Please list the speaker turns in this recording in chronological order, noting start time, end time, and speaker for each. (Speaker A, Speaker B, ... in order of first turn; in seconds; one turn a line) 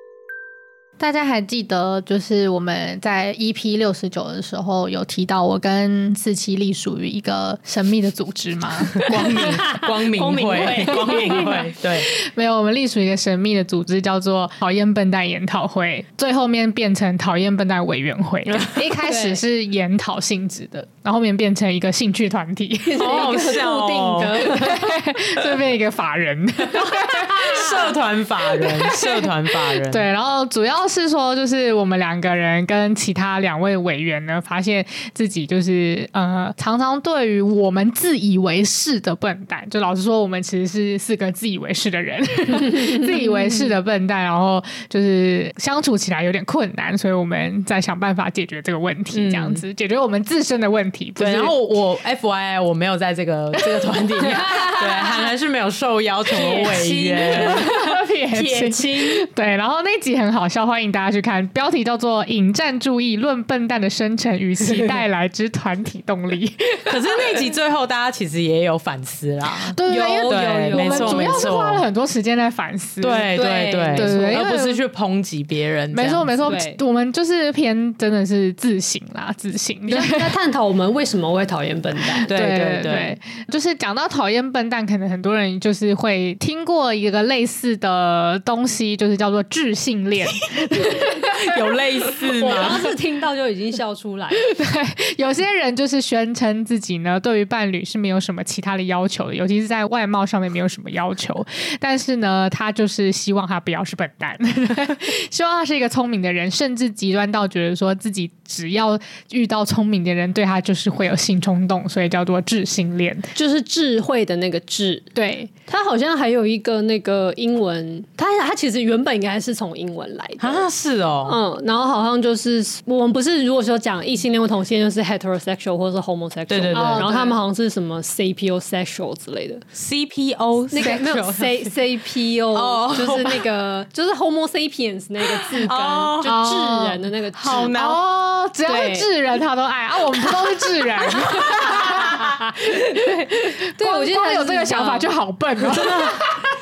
Speaker A: 1.0-9.7
Speaker B: 9.0-12.1
Speaker C: 9.1-11.7
Speaker A: 11.0-23.6
Speaker C: 18.6-19.4
Speaker C: 22.9-25.0
Speaker B: 23.0-24.5
Speaker A: 24.4-27.9
Speaker B: 27.1-30.1
Speaker A: 28.5-51.6
Speaker B: 49.1-49.6
Speaker B: 51.2-57.7
Speaker C: 54.2-55.3
Speaker C: 56.3-59.3
Speaker A: 57.3-67.4
Speaker B: 66.9-71.9
Speaker A: 69.7-73.4
Speaker C: 69.8-71.6
Speaker B: 73.0-76.5
Speaker C: 73.3-74.5
Speaker A: 73.9-74.8
Speaker A: 75.9-80.3
Speaker C: 76.5-76.8
Speaker C: 79.9-82.3
Speaker A: 82.2-91.3
Speaker B: 82.3-83.2
Speaker B: 90.6-92.9
Speaker C: 92.3-94.5
Speaker A: 94.4-113.3
Speaker C: 113.3-115.1
Speaker A: 115.2-115.5
Speaker C: 115.7-120.7
Speaker B: 120.4-121.4
Speaker C: 121.2-129.6
Speaker B: 126.5-127.1
Speaker A: 126.7-127.4
Speaker B: 129.8-131.5
Speaker C: 130.7-137.7
Speaker A: 130.8-131.4
Speaker B: 132.5-133.4
Speaker B: 135.3-136.5
Speaker A: 136.2-137.0
Speaker B: 137.3-138.0
Speaker A: 137.7-146.3
Speaker C: 138.7-139.1
Speaker B: 141.4-142.4
Speaker C: 141.4-142.2
Speaker C: 142.7-145.1
Speaker B: 145.6-146.3